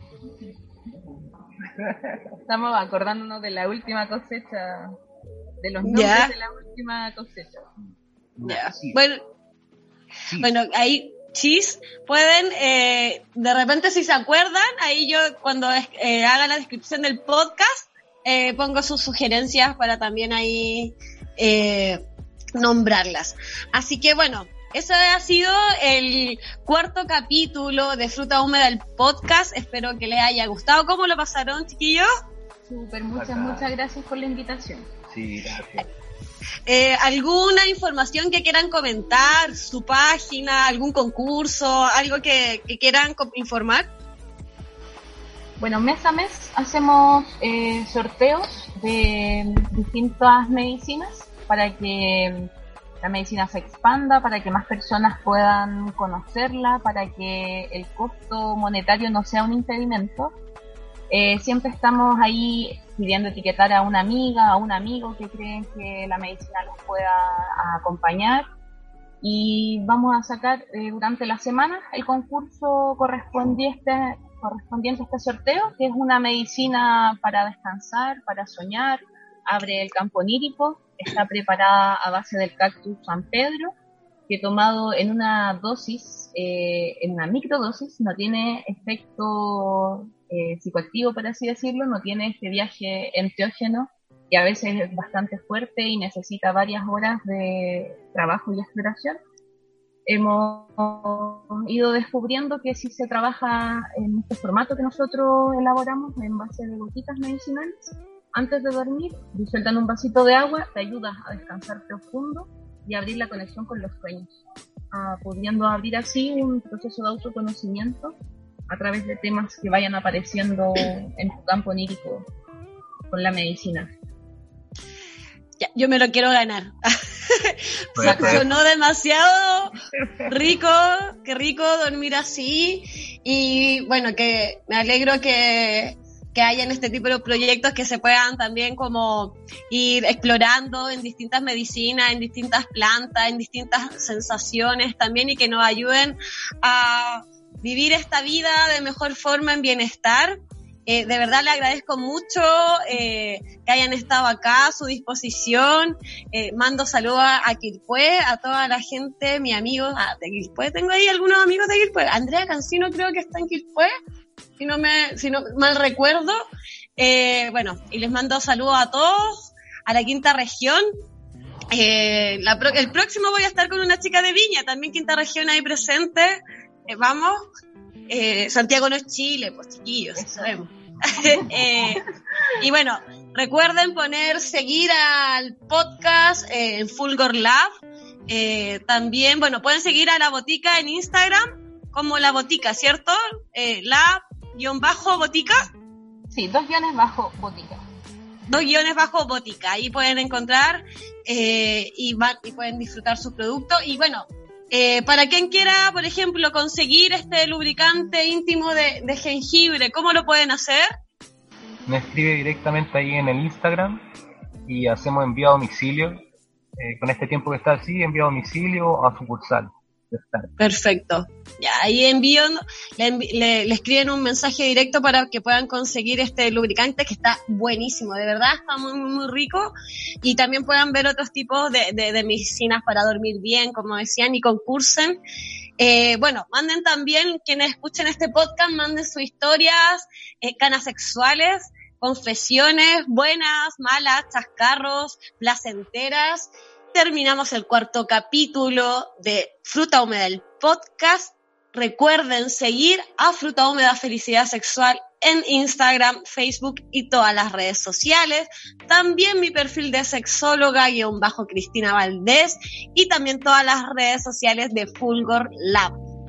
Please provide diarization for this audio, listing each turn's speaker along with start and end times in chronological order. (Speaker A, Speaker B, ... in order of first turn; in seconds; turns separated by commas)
Speaker A: 1.8-2.2, Speaker B: 2.5-5.0, Speaker B: 5.6-7.7, Speaker C: 5.8-6.3, Speaker A: 8.3-9.0, Speaker C: 8.4-9.2, Speaker C: 10.4-22.0, Speaker C: 22.6-32.1, Speaker B: 32.7-34.9, Speaker A: 33.1-33.7, Speaker A: 35.1-35.9, Speaker C: 36.6-43.9, Speaker B: 45.6-52.5, Speaker B: 53.0-60.3, Speaker B: 61.1-68.5, Speaker B: 69.2-83.7, Speaker B: 84.3-99.2, Speaker B: 100.0-114.4, Speaker B: 114.9-118.2, Speaker B: 118.7-122.3, Speaker B: 123.1-123.9, Speaker C: 125.6-129.8, Speaker A: 128.0-128.5, Speaker B: 128.0-128.4, Speaker C: 130.3-163.9, Speaker C: 164.6-166.4, Speaker C: 167.0-170.9, Speaker C: 171.7-177.4, Speaker C: 178.1-182.0, Speaker B: 180.2-180.5, Speaker C: 182.6-187.7, Speaker C: 188.3-195.7, Speaker B: 196.3-197.8, Speaker C: 198.5-210.9, Speaker A: 211.8-214.0, Speaker A: 214.7-216.2, Speaker A: 216.8-220.5, Speaker C: 220.6-235.2, Speaker C: 235.8-265.9